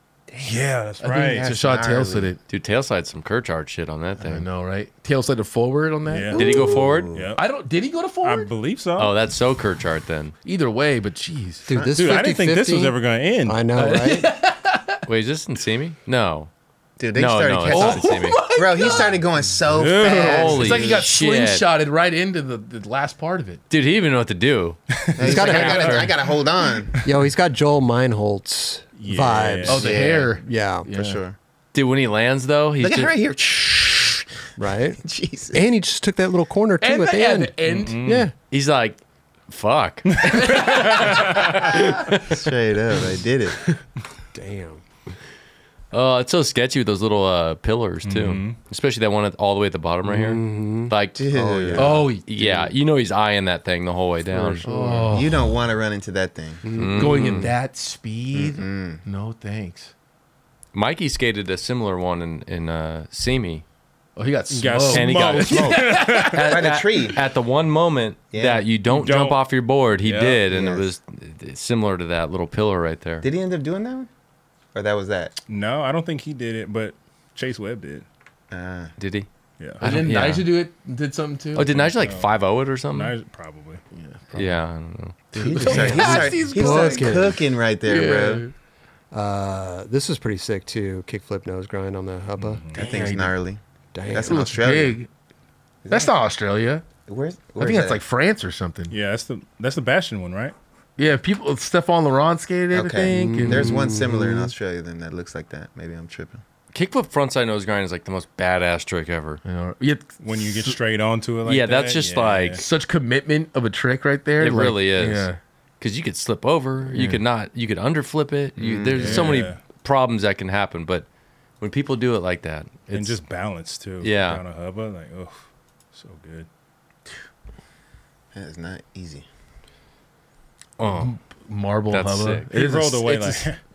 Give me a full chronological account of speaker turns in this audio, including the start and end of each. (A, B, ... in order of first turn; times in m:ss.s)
0:00.3-0:02.3 A
0:00.4-0:01.5 B
0:01.0-0:02.4 C
0:02.5-0:04.4 D
0:04.3-0:06.8 C
0:06.1-0:07.4 B
0:06.3-0:07.4 A
0:06.3-0:07.1 D
0:07.4-0:08.5 C
0:08.2-0:09.2 B
0:09.0-0:10.3 D
0:10.4-0:11.7 C
0:11.7-0:14.3 E
0:11.7-0:12.2 A
0:11.9-0:13.7 B
0:13.8-0:15.0 C
0:15.1-0:16.5 D
0:17.0-0:21.1 A
0:17.2-0:18.4 D
0:17.7-0:19.2 C
0:19.6-0:20.7 B
0:20.0-0:21.6 D
0:20.3-0:23.6 C
0:23.7-0:26.1 D
0:25.2-0:27.0 A
0:25.2-0:26.1 E
0:27.0-0:30.9 E
0:29.0-0:29.9 B
0:29.7-0:31.2 C
0:29.7-0:30.4 A
0:30.9-0:31.4 A
0:31.7-0:33.1 D
0:32.8-0:34.3 A
0:34.6-0:35.0 E
0:35.0-0:35.6 A
0:35.5-0:38.3 E
0:36.8-0:38.1 C
0:37.7-0:38.3 B
0:38.5-0:42.3 D
0:40.2-0:41.6 B
0:40.4-0:41.2 C
0:41.9-0:43.6 A
0:44.3-0:44.8 E
0:45.9-0:51.2 D
0:48.0-0:48.6 B
0:50.1-0:52.1 E
0:51.2-0:52.0 A
0:51.8-0:52.7 C
0:52.2-0:54.7 D
0:54.3-0:55.0 E
0:54.6-0:55.6 C
0:55.1-0:56.6 A
0:56.6-0:57.5 E
0:56.7-0:57.5 D
0:57.0-0:59.9 C
0:58.3-0:59.0 A
1:00.7-1:03.6 D
1:04.2-1:06.5 C
1:04.5-1:06.5 B
1:04.9-1:13.3 D
1:06.5-1:07.2 A
1:08.3-1:08.7 A
1:08.9-1:09.4 B
1:10.0-1:10.4 B
1:10.5-1:10.9 A
1:13.2-1:14.1 A
1:14.7-1:15.4 A
1:15.5-1:18.1 B
1:18.5-1:19.0 A
1:19.0-1:19.3 D
1:19.6-1:20.1 B
1:19.8-1:20.5 D
1:19.8-1:21.7 C
1:21.6-1:23.1 D
1:21.7-1:22.4 B
1:22.9-1:23.8 B
1:23.9-1:24.6 C
1:24.3-1:25.2 D
1:25.3-1:28.5 C
1:25.3-1:28.5 A
1:25.6-1:27.4 E
1:29.1-1:32.6 E
1:32.4-1:33.1 B
1:32.8-1:33.3 C
1:32.8-1:35.0 A
1:33.9-1:34.5 E
1:34.2-1:35.1 C
1:35.8-1:36.1 A
1:35.9-1:36.8 C
1:37.1-1:38.0 A
1:37.6-1:38.9 C
1:38.9-1:40.6 B
1:41.0-1:43.8 C
1:42.7-1:46.4 A
1:43.1-1:44.5 E
1:46.7-1:49.4 D
1:49.4-1:50.8 C
1:50.2-1:52.6 B
1:51.4-1:52.6 D
1:52.6-1:55.4 C
1:54.4-2:01.1 D
1:56.9-1:57.2 C
1:58.6-1:59.4 A
1:58.9-1:59.6 B
2:01.6-2:03.2 D
2:02.9-2:06.5 B
2:04.0-2:04.4 D
2:08.3-2:09.3 A
2:10.8-2:11.2 D
2:10.8-2:13.5 C
2:11.9-2:12.5 D
2:12.5-2:13.6 B